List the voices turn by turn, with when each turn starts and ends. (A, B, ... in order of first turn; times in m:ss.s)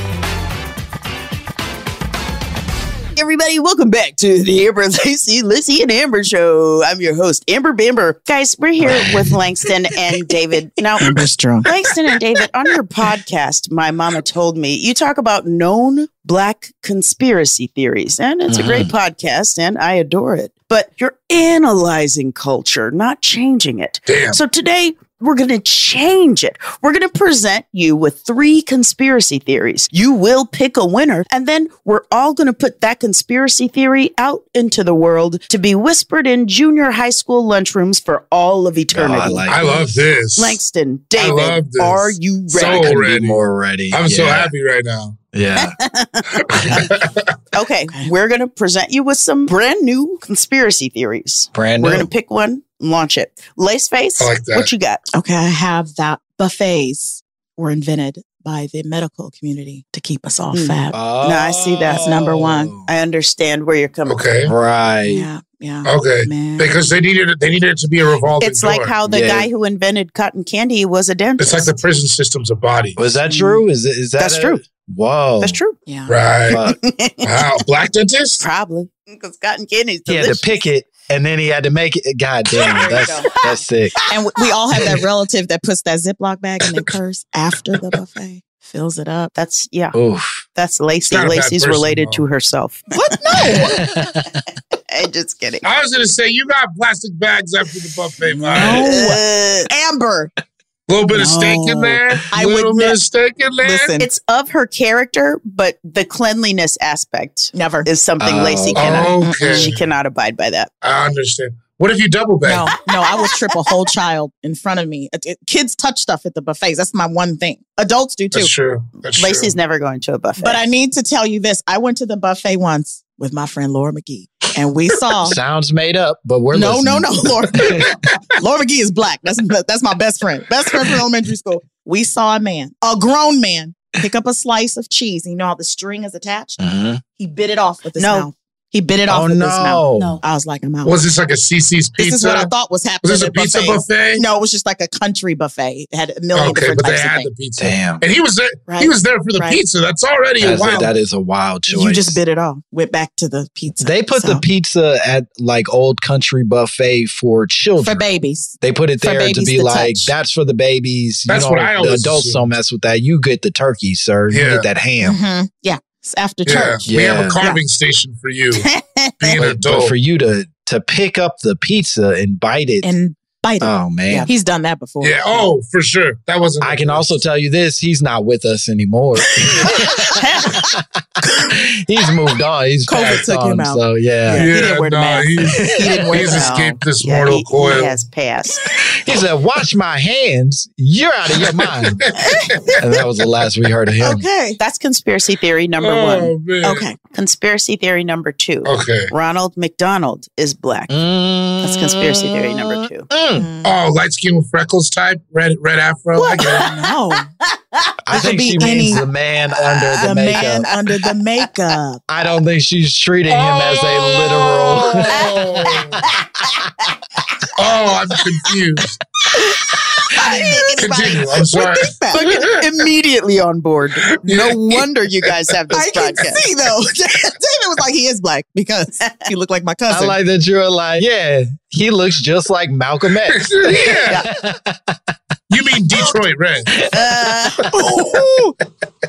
0:03.1-0:39.5 A
0:08.8-0:09.2 B
0:11.0-0:11.7 C
0:18.5-0:18.9 B
0:24.1-0:24.4 D
0:38.9-0:40.0 B
0:39.5-0:40.6 D
0:40.4-0:42.9 A
0:41.1-0:45.2 D
0:42.7-0:44.5 B
0:45.3-0:45.8 B
0:45.6-0:46.9 A
0:46.4-0:47.3 D
0:46.6-0:46.9 B
0:47.5-0:55.0 A
0:51.5-0:52.1 B
0:54.2-0:54.7 D
0:55.1-1:01.1 C
1:00.5-1:02.1 A
1:00.9-1:02.9 B
1:01.9-1:02.8 C
1:02.8-1:04.2 A
1:04.1-1:04.5 D
1:04.4-1:05.3 B
1:05.0-1:06.7 C
1:05.8-1:08.9 D
1:08.4-1:11.7 A
1:09.1-1:09.5 B
1:11.4-1:13.1 D
1:13.0-1:15.6 B
1:13.3-1:13.6 C
1:14.2-1:14.6 A
1:15.4-1:15.8 A
1:15.8-1:16.2 C
1:16.1-1:16.6 D
1:16.5-1:16.8 B
1:16.6-1:17.4 A
1:17.2-1:18.4 D
1:18.4-1:20.7 A
1:20.1-1:23.9 B
1:22.6-1:23.3 C
1:22.6-1:23.4 A
1:24.1-1:29.3 C
1:29.3-1:30.0 A
1:29.9-1:30.4 B
1:30.5-1:32.8 A
1:31.1-1:32.2 D
1:32.9-1:33.8 C
1:33.5-1:34.4 B
1:34.9-1:35.6 A
1:35.6-1:38.9 D
1:38.2-1:40.3 C
1:38.6-1:39.7 A
1:40.9-1:43.9 D
1:41.1-1:43.0 C
1:43.6-1:44.1 C
1:44.0-1:50.7 A
1:47.5-1:47.9 C
1:48.2-1:49.2 B
1:48.7-1:49.8 D
1:49.2-1:49.7 C
1:50.8-1:52.7 D
1:52.4-1:58.5 C
1:53.1-1:53.4 A
1:58.3-1:59.5 D
1:59.1-2:00.6 A
2:00.4-2:05.4 C
2:05.2-2:07.9 B
2:06.5-2:16.6 C
2:16.6-2:17.0 B
2:17.2-2:21.0 C
2:18.0-2:18.3 A
2:19.1-2:20.2 B
2:20.8-2:22.5 D
2:22.0-2:27.3 C
2:23.0-2:24.2 D
2:26.3-2:30.9 D
2:27.6-2:28.0 B
2:28.7-2:29.6 C
2:30.4-2:32.2 B
2:31.7-2:34.4 C
2:33.8-2:38.0 B
2:37.8-2:40.1 C
2:38.6-2:45.2 B
2:41.3-2:42.5 D
2:44.3-2:44.6 D
2:45.0-2:46.8 C
2:46.4-2:48.7 D
2:46.9-2:47.4 B
2:48.5-2:49.4 A
2:49.2-2:49.9 D
2:49.3-2:52.9 B
2:52.8-2:55.5 C
2:53.6-2:54.3 B
2:55.0-2:57.2 D
2:56.6-3:04.5 B
2:59.6-3:00.4 C
3:02.9-3:06.7 C
3:03.0-3:03.2 D
3:04.3-3:08.0 D
3:06.1-3:08.6 A
3:08.9-3:12.0 B
3:12.0-3:12.6 D
3:12.8-3:14.2 B
3:14.0-3:14.6 C
3:14.6-3:16.3 A
3:15.8-3:16.9 D
3:16.6-3:17.0 C
3:17.1-3:20.9 A
3:18.6-3:19.1 D
3:20.9-3:23.5 B
3:21.6-3:23.1 A
3:23.3-3:23.7 C
3:23.6-3:26.7 D
3:26.2-3:26.9 A
3:26.2-3:27.3 C
3:27.4-3:28.7 A
3:28.0-3:30.7 B
3:28.1-3:29.0 C
3:29.6-3:31.1 A
3:30.0-3:32.0 C
3:32.1-3:36.0 B
3:33.3-3:36.0 D
3:35.0-3:36.9 A
3:37.6-3:39.0 D
3:40.1-3:42.4 C
3:40.8-3:42.6 D
3:42.1-3:46.5 A
3:44.1-3:44.8 D
3:45.7-3:50.2 C
3:49.9-3:55.0 B
3:53.3-3:54.2 D
3:55.5-3:56.8 D
3:56.9-3:57.7 A
3:57.6-3:58.6 C